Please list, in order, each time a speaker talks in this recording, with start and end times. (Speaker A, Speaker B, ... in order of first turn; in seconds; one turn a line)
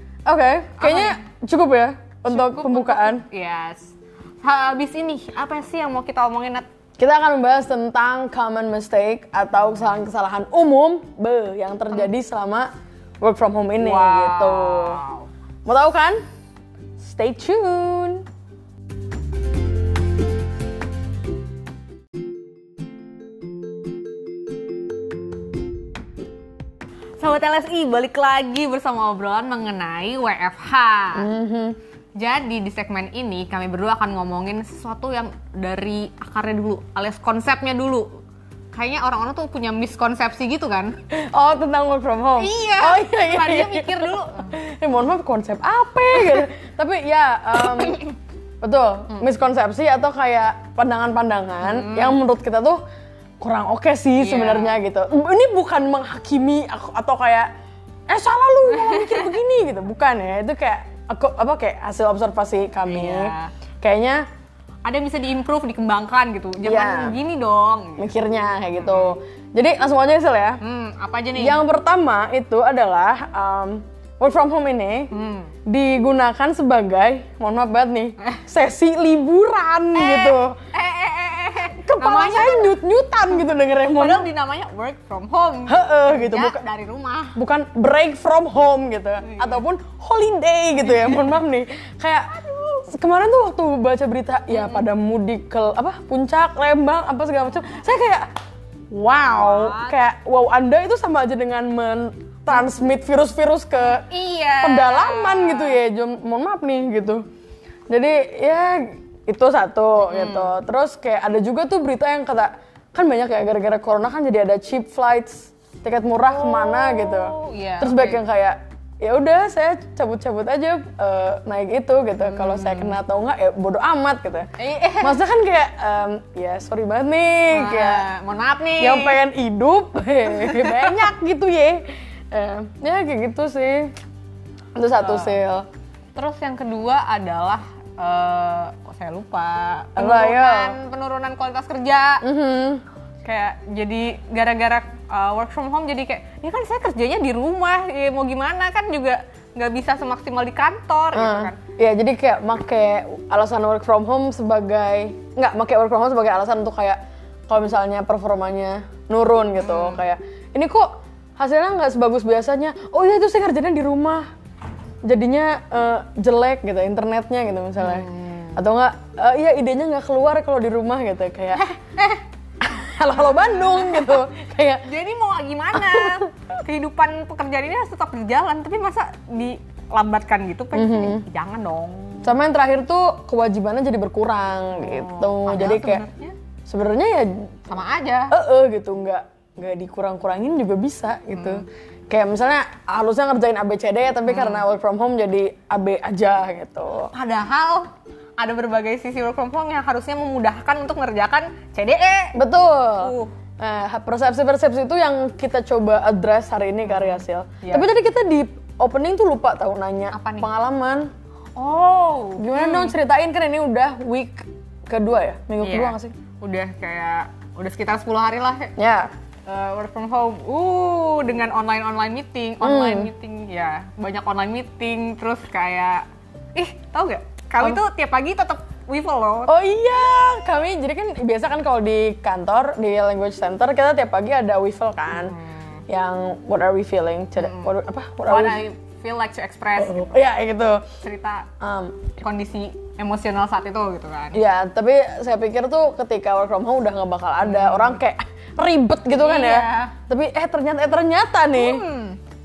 Speaker A: 0.2-3.2
Speaker B: 0.8-1.2
Speaker B: 2.3-6.7
Speaker A: 7.0-12.7
Speaker A: 13.2-15.0
Speaker B: 13.8-15.3
Speaker A: 15.7-16.2
Speaker A: 17.0-18.2
Speaker B: 27.2-31.3
Speaker A: 31.1-31.8
Speaker B: 32.2-38.2
Speaker B: 38.7-41.0
Speaker A: 41.1-48.0
Speaker B: 42.4-44.6
Speaker B: 47.6-48.1
Speaker A: 48.6-52.8
Speaker B: 51.6-52.2
Speaker A: 53.4-57.5
Speaker B: 54.2-54.8
Speaker A: 58.1-64.3
Speaker B: 58.9-59.2
Speaker B: 62.9-63.5
Speaker B: 64.8-68.1
Speaker A: 66.6-67.2
Speaker A: 68.0-70.6
Speaker B: 68.8-69.1
Speaker B: 70.6-71.6
Speaker A: 71.4-75.1
Speaker B: 75.1-75.5
Speaker A: 75.7-80.6
Speaker B: 79.9-82.8
Speaker A: 81.8-84.3
Speaker B: 83.8-87.4
Speaker A: 85.7-86.6
Speaker A: 87.3-98.3
Speaker B: 89.2-89.6
Speaker B: 90.8-91.4
Speaker B: 94.5-94.8
Speaker A: 98.9-104.1
Speaker B: 99.3-100.0
Speaker B: 103.8-105.8
Speaker A: 104.6-107.2
Speaker A: 107.9-128.1
Speaker B: 110.1-110.6
Speaker B: 116.2-118.2
Speaker B: 122.2-123.0
Speaker B: 124.6-125.2
Speaker B: 127.5-129.2
Speaker A: 128.8-133.9
Speaker B: 130.3-131.1
Speaker A: 134.8-135.7
Speaker B: 135.0-135.4
Speaker B: 136.2-142.2
Speaker A: 140.0-140.8
Speaker A: 142.2-142.8
Speaker B: 143.2-151.6
Speaker A: 151.1-164.3
Speaker B: 159.6-160.0
Speaker A: 165.0-171.7
Speaker B: 167.8-168.6
Speaker B: 171.6-172.2
Speaker A: 172.6-174.8
Speaker B: 173.1-174.2
Speaker B: 174.8-182.3
Speaker A: 175.7-176.3
Speaker A: 180.7-181.2
Speaker A: 182.2-186.1
Speaker B: 184.8-186.4
Speaker A: 186.7-187.5
Speaker B: 187.7-188.3
Speaker A: 188.3-197.1
Speaker B: 191.3-191.6
Speaker B: 194.3-194.7
Speaker B: 197.1-202.4
Speaker A: 202.3-211.1
Speaker B: 203.0-203.3
Speaker B: 206.9-207.9
Speaker B: 210.1-210.5
Speaker B: 211.6-213.0
Speaker A: 212.4-216.2
Speaker B: 215.6-218.8
Speaker A: 218.8-219.1
Speaker B: 219.5-229.6
Speaker A: 222.6-223.1
Speaker A: 229.5-235.4
Speaker B: 235.1-235.8
Speaker A: 235.9-238.6
Speaker B: 237.4-237.7
Speaker B: 238.2-240.2
Speaker A: 239.8-240.9
Speaker B: 241.0-241.5
Speaker A: 241.6-242.1
Speaker B: 242.2-244.4
Speaker A: 244.3-251.9
Speaker B: 247.4-248.0
Speaker B: 249.1-249.9
Speaker B: 251.5-252.2